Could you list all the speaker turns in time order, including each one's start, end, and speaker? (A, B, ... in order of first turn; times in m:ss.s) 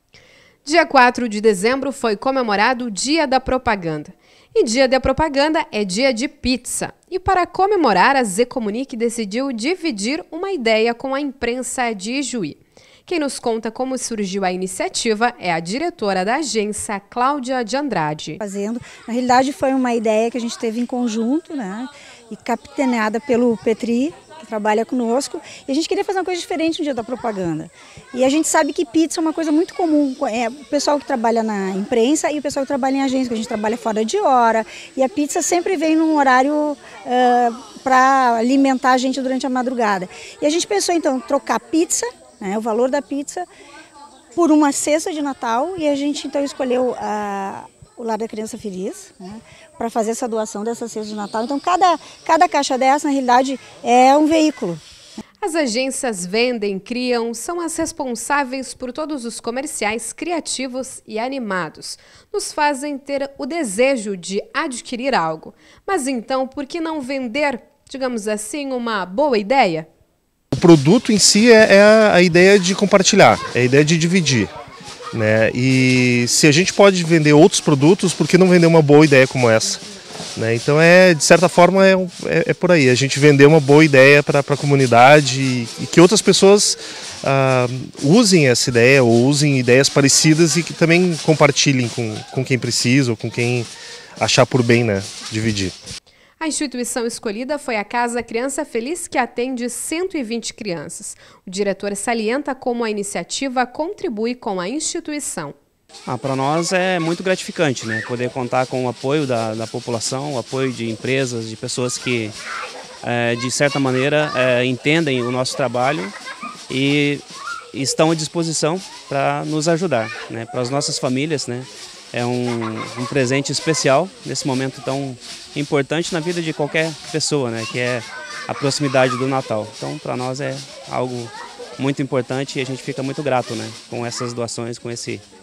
0:00.6-0:18.4 A
0:18.4-0:43.5 B
0:44.3-0:54.8 B
0:55.4-1:09.9 A
1:10.5-1:14.5 C
1:15.1-1:19.8 C
1:20.4-1:35.7 C
1:36.4-1:45.5 A
1:46.0-1:52.4 D
1:53.0-1:56.1 D
1:56.7-2:15.2 D